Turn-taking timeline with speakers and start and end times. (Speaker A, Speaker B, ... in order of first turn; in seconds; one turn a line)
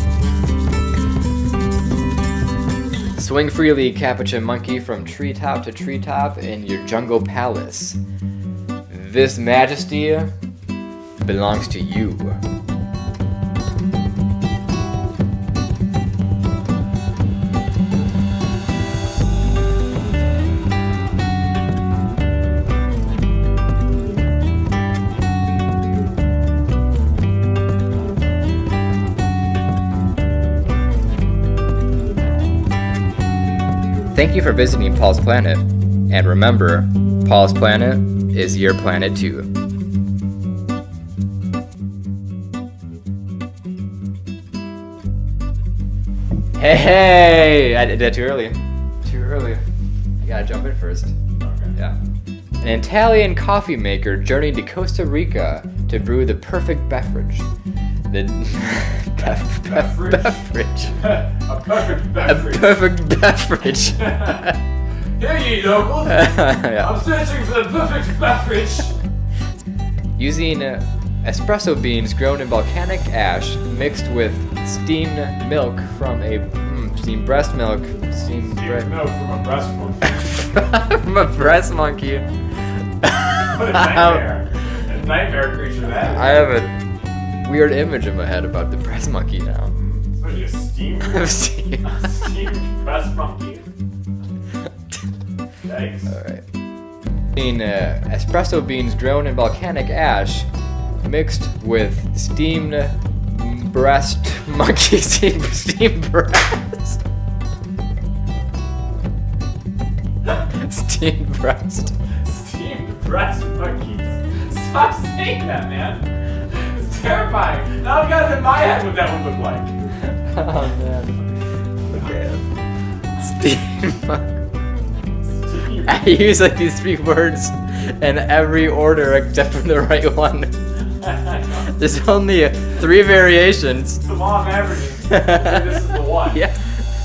Speaker A: 3.2-8.0
Speaker A: 8.9-10.3
Speaker A: 11.2-12.4
Speaker A: 34.1-39.5
Speaker A: 46.6-49.6
Speaker A: 50.2-51.1
Speaker B: 51.4-51.8
Speaker A: 52.6-57.5
Speaker A: 58.1-61.0
Speaker B: 59.2-62.9
Speaker A: 62.2-64.6
Speaker B: 64.0-64.4
Speaker B: 65.2-69.0
Speaker A: 66.1-67.0
Speaker A: 70.2-78.9
Speaker B: 78.5-80.4
Speaker A: 80.3-82.3
Speaker A: 83.0-84.2
Speaker B: 83.5-86.6
Speaker A: 85.9-86.7
Speaker A: 87.4-89.8
Speaker B: 89.7-93.7
Speaker A: 91.0-92.1
Speaker B: 95.6-96.2
Speaker A: 96.1-96.4
Speaker A: 97.3-100.5
Speaker A: 101.0-107.0
Speaker A: 110.4-112.0
Speaker B: 112.2-119.8
Speaker A: 120.1-121.2
Speaker A: 121.9-122.4
Speaker A: 123.2-124.4
Speaker B: 125.4-126.2
Speaker A: 125.8-130.6
Speaker B: 131.0-131.7
Speaker A: 131.5-134.1
Speaker B: 134.0-136.4
Speaker A: 135.1-136.8